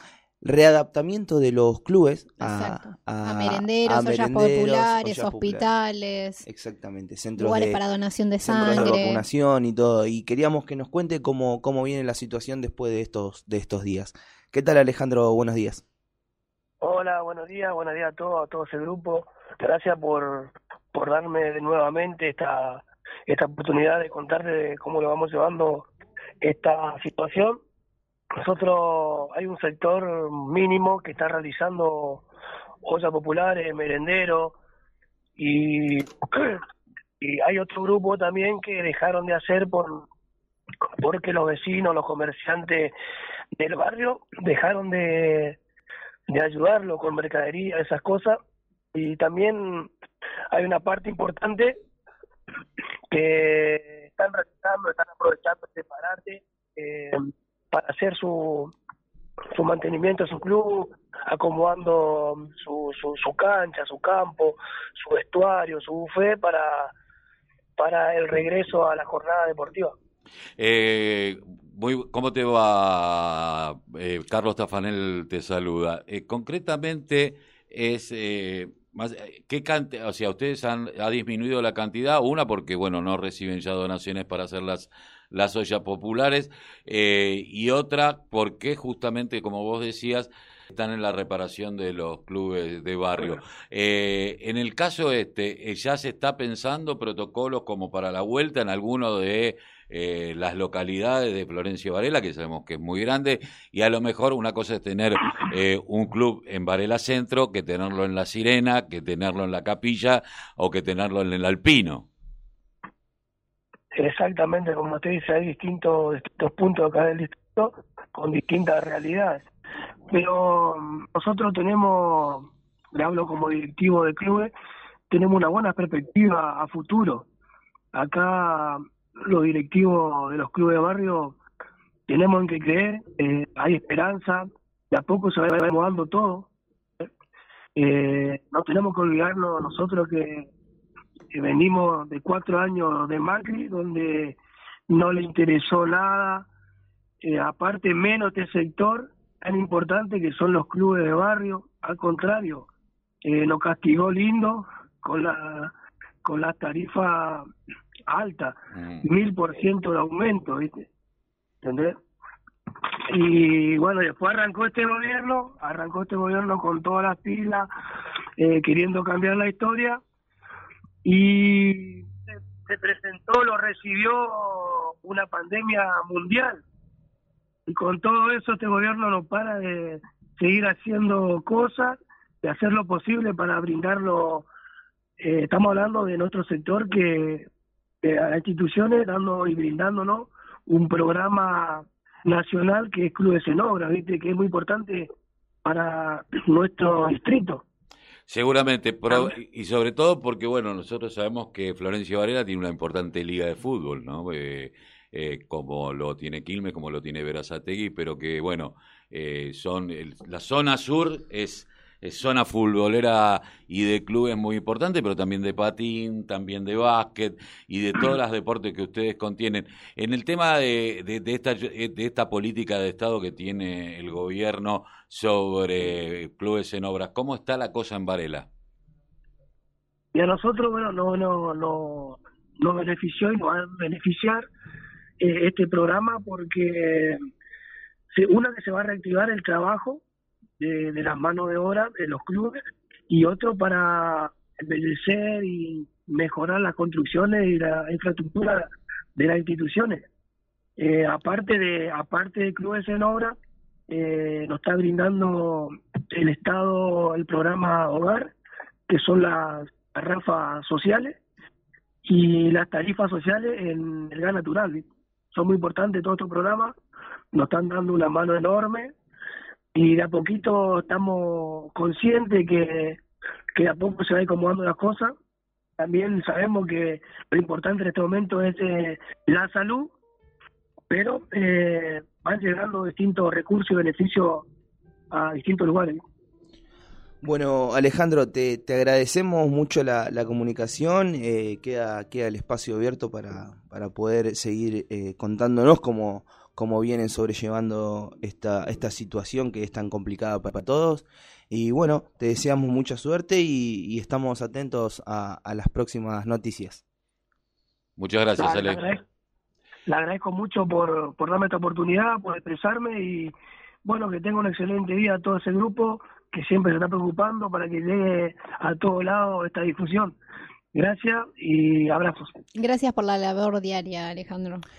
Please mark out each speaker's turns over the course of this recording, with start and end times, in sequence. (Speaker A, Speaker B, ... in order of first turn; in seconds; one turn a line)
Speaker A: 0.4-5.7
Speaker B: 2.4-6.4
Speaker A: 6.4-7.8
Speaker B: 7.4-9.2
Speaker A: 8.4-15.8
Speaker C: 16.8-25.9
Speaker C: 26.4-27.6
Speaker C: 28.4-32.2
Speaker C: 32.8-34.6
Speaker C: 35.4-36.6
Speaker C: 37.2-40.1
Speaker C: 41.0-42.9
Speaker C: 43.5-45.6
Speaker C: 46.3-48.4
Speaker C: 48.9-49.9
Speaker C: 50.5-51.8
Speaker C: 53.1-58.7
Speaker C: 59.5-66.9
Speaker C: 67.8-69.9
Speaker D: 70.6-112.0
Speaker C: 113.9-119.4
Speaker C: 120.1-124.5
Speaker C: 125.1-127.2
Speaker C: 127.9-131.4
Speaker C: 132.1-136.5
Speaker C: 137.8-140.5
Speaker C: 141.3-144.4
Speaker C: 144.9-146.5
Speaker C: 147.2-152.7
Speaker C: 153.2-155.7
Speaker C: 156.2-157.4
Speaker C: 158.1-160.8
Speaker D: 158.7-159.0
Speaker C: 161.6-161.9
Speaker C: 163.1-167.7
Speaker C: 168.4-170.0
Speaker C: 171.0-176.6
Speaker C: 177.7-184.5
Speaker C: 185.2-187.5
Speaker C: 188.0-195.1
Speaker C: 195.6-197.6
Speaker D: 198.3-228.5
Speaker C: 230.1-234.4
Speaker C: 235.2-237.2
Speaker C: 238.1-240.0
Speaker C: 240.6-250.0
Speaker C: 250.8-253.3
Speaker C: 253.9-258.3
Speaker C: 258.9-261.2
Speaker C: 262.0-266.7
Speaker C: 267.3-268.9
Speaker C: 269.7-273.0
Speaker C: 273.5-275.1
Speaker C: 275.8-279.9
Speaker C: 280.9-284.5
Speaker C: 285.1-286.0
Speaker A: 287.2-306.8
Speaker D: 308.0-308.9
Speaker C: 308.4-309.0
Speaker C: 309.9-313.3
Speaker C: 313.8-320.1
Speaker C: 320.7-322.4
Speaker B: 322.5-324.6